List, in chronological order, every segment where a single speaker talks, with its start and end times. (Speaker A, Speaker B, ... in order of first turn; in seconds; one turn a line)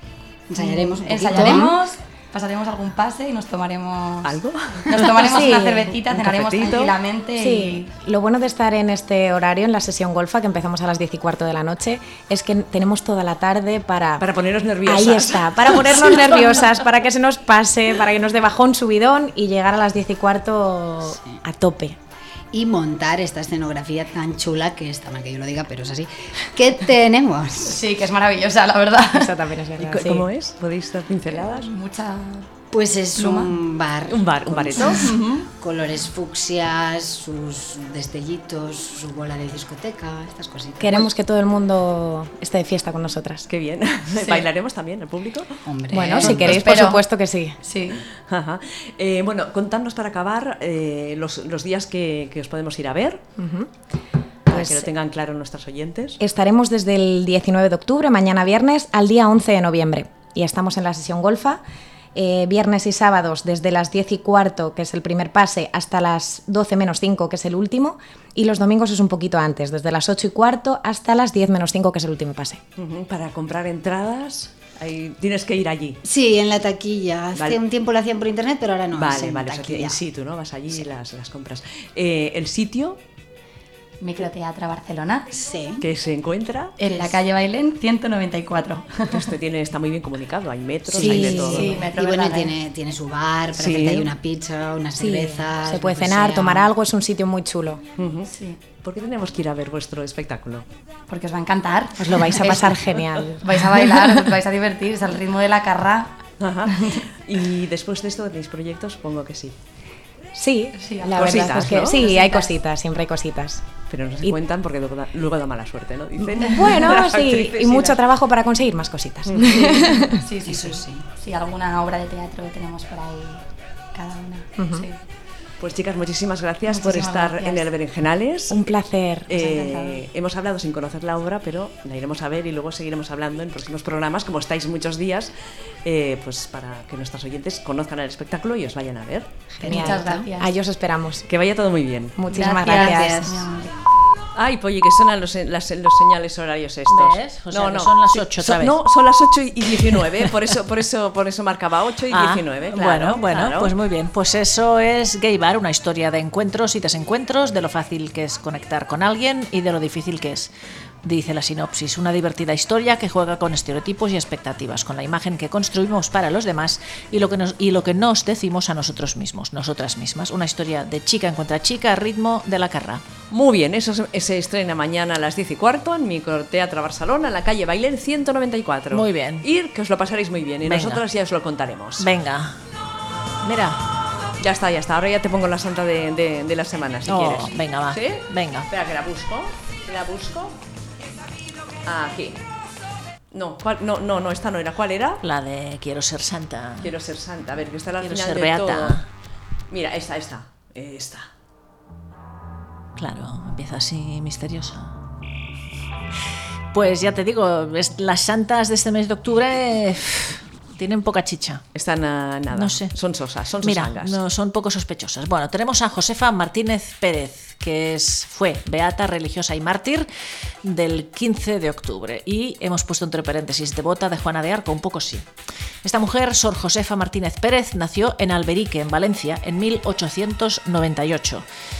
Speaker A: 0.5-1.7
Speaker B: 0.6-7.9
Speaker C: 1.3-1.8
Speaker D: 4.2-5.2
Speaker C: 5.2-5.9
Speaker D: 6.1-6.9
Speaker C: 7.4-14.2
Speaker D: 14.2-16.6
Speaker C: 14.8-22.0
Speaker A: 21.1-21.4
Speaker A: 22.5-27.8
Speaker B: 27.6-29.3
Speaker C: 29.1-30.3
Speaker D: 29.8-31.7
Speaker B: 31.3-32.5
Speaker A: 32.7-41.1
Speaker B: 33.1-33.5
Speaker D: 34.1-35.3
Speaker B: 35.0-35.4
Speaker C: 40.8-43.5
Speaker D: 43.5-45.6
Speaker A: 45.6-46.6
Speaker C: 45.9-47.6
Speaker B: 46.2-47.0
Speaker B: 47.6-48.0
Speaker D: 48.2-53.2
Speaker C: 53.4-53.7
Speaker D: 54.5-56.2
Speaker C: 54.5-54.9
Speaker C: 56.2-61.6
Speaker C: 62.1-72.6
Speaker D: 72.8-76.0
Speaker A: 76.0-80.0
Speaker D: 77.3-77.6
Speaker D: 78.9-83.0
Speaker B: 84.0-85.3
Speaker A: 85.3-85.8
Speaker D: 85.8-86.8
Speaker B: 86.8-89.3
Speaker A: 86.8-87.1
Speaker D: 89.1-91.8
Speaker A: 90.9-96.7
Speaker B: 91.0-92.5
Speaker C: 91.0-91.7
Speaker D: 93.5-94.1
Speaker C: 95.0-97.8
Speaker D: 98.0-98.3
Speaker B: 98.3-98.6
Speaker D: 98.8-100.6
Speaker B: 101.1-106.1
Speaker C: 102.0-103.8
Speaker D: 106.4-109.5
Speaker C: 110.3-113.6
Speaker B: 110.8-112.5
Speaker D: 111.2-111.9
Speaker D: 113.9-118.0
Speaker C: 116.3-120.1
Speaker B: 119.5-125.0
Speaker A: 120.4-121.0
Speaker C: 124.6-124.8
Speaker D: 125.6-128.6
Speaker B: 126.7-127.6
Speaker C: 128.5-129.4
Speaker D: 129.3-135.3
Speaker B: 129.3-130.0
Speaker D: 135.8-139.4
Speaker C: 139.5-141.3
Speaker A: 139.6-140.3
Speaker B: 139.6-140.5
Speaker D: 141.3-142.2
Speaker C: 142.2-143.4
Speaker B: 142.3-143.8
Speaker A: 142.5-143.4
Speaker D: 144.3-153.7
Speaker E: 146.9-148.8
Speaker E: 152.1-160.5
Speaker E: 161.0-173.0
Speaker D: 173.3-182.1
Speaker E: 178.9-179.5
Speaker E: 180.6-181.0
Speaker E: 182.0-182.6
Speaker E: 183.4-183.8
Speaker D: 184.4-190.6
Speaker E: 187.1-188.7
Speaker D: 191.8-192.4
Speaker D: 193.3-195.2
Speaker E: 195.2-196.9
Speaker D: 196.8-199.0
Speaker E: 198.0-199.1
Speaker D: 199.7-201.3
Speaker E: 203.0-204.9
Speaker E: 206.7-211.6
Speaker D: 211.7-214.2
Speaker E: 212.5-212.9
Speaker E: 213.6-220.1
Speaker E: 220.6-225.2
Speaker E: 225.8-231.4